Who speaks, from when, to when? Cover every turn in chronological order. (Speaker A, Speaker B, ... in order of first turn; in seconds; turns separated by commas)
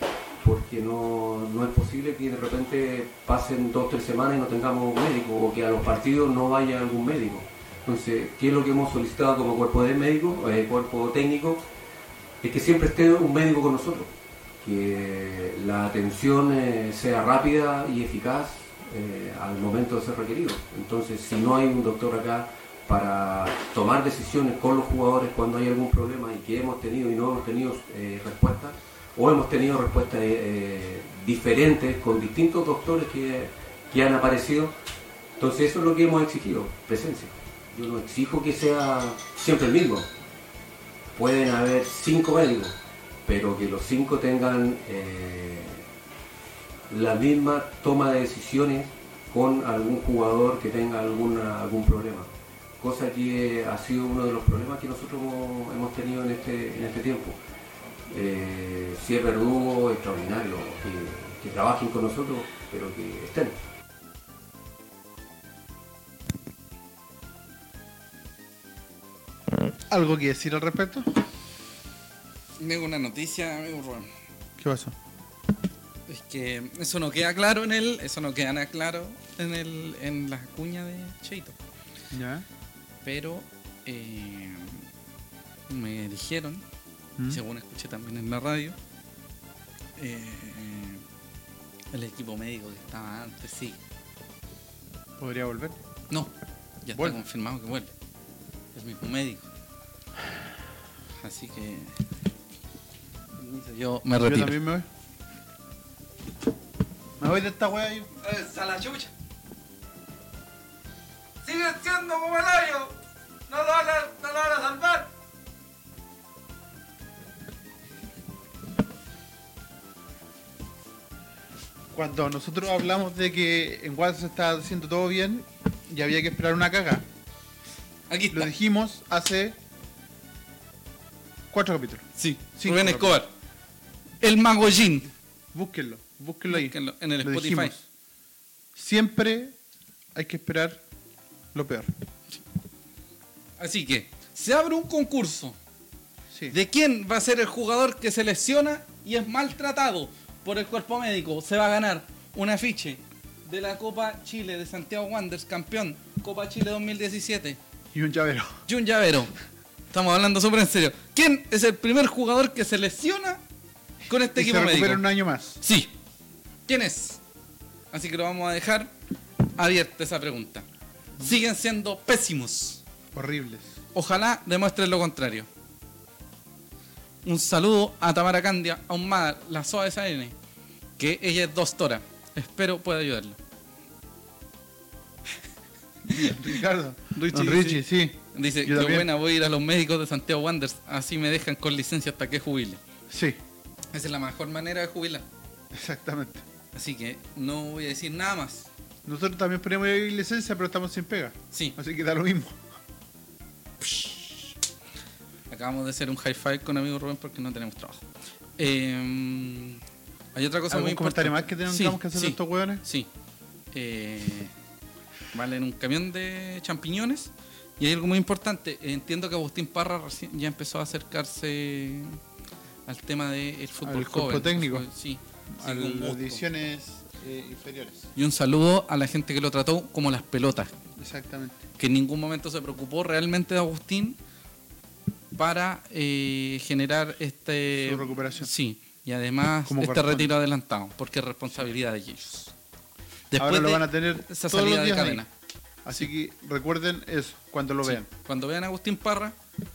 Speaker A: 0.4-11.7, Speaker A: 12.4-34.8, Speaker A: 35.4-40.1, Speaker A: 41.1-45.9, Speaker A: 46.9-57.4, Speaker A: 58.1-63.6, Speaker B: 69.9-71.1, Speaker C: 72.6-74.1, Speaker B: 74.6-75.0, Speaker C: 76.1-81.6, Speaker B: 82.1-82.5, Speaker C: 83.0-84.8, Speaker C: 85.7-86.6, Speaker C: 87.3-88.8, Speaker C: 90.0-91.0, Speaker C: 91.9-93.8, Speaker B: 95.2-95.8, Speaker C: 96.8-97.9, Speaker B: 97.0-97.2, Speaker C: 98.7-99.5, Speaker C: 101.2-102.0, Speaker C: 103.4-104.6, Speaker B: 104.2-104.9, Speaker B: 107.2-108.1, Speaker C: 108.2-109.1, Speaker C: 111.4-113.0, Speaker C: 113.5-115.1, Speaker B: 121.9-127.1, Speaker C: 128.1-128.5, Speaker B: 128.3-129.6, Speaker B: 131.5-133.2, Speaker C: 132.2-133.3, Speaker C: 134.2-135.1, Speaker B: 135.5-137.8, Speaker C: 136.5-137.7, Speaker B: 138.8-139.6, Speaker B: 140.1-140.8, Speaker B: 141.5-141.9, Speaker C: 143.6-145.6, Speaker C: 146.5-157.6, Speaker B: 157.9-158.6, Speaker C: 158.7-159.3, Speaker C: 159.9-163.4, Speaker C: 164.1-165.1, Speaker B: 164.3-165.6, Speaker C: 165.6-165.9, Speaker C: 166.7-167.2, Speaker C: 167.9-168.9, Speaker C: 169.5-170.7, Speaker C: 171.2-172.8, Speaker B: 173.1-173.8, Speaker C: 173.9-175.5, Speaker C: 177.2-180.3, Speaker C: 181.0-183.4, Speaker C: 186.1-186.5, Speaker B: 186.1-189.1, Speaker C: 187.1-192.8, Speaker B: 193.1-193.4, Speaker C: 193.9-195.2, Speaker B: 195.7-196.4, Speaker C: 196.7-198.7, Speaker B: 199.1-202.6, Speaker C: 201.5-201.8, Speaker C: 203.8-204.5, Speaker C: 205.5-208.1, Speaker C: 208.6-209.8, Speaker C: 210.3-213.1, Speaker B: 210.7-212.8, Speaker C: 213.7-214.5, Speaker C: 215.3-222.2, Speaker C: 222.9-226.4, Speaker B: 223.8-224.9, Speaker B: 225.5-228.1, Speaker C: 228.2-230.7, Speaker B: 231.0-231.6, Speaker C: 231.8-234.2, Speaker C: 235.3-242.5, Speaker B: 237.7-238.5, Speaker B: 239.7-240.3, Speaker C: 243.3-245.3, Speaker B: 243.4-245.2, Speaker B: 245.8-248.1, Speaker C: 247.8-249.4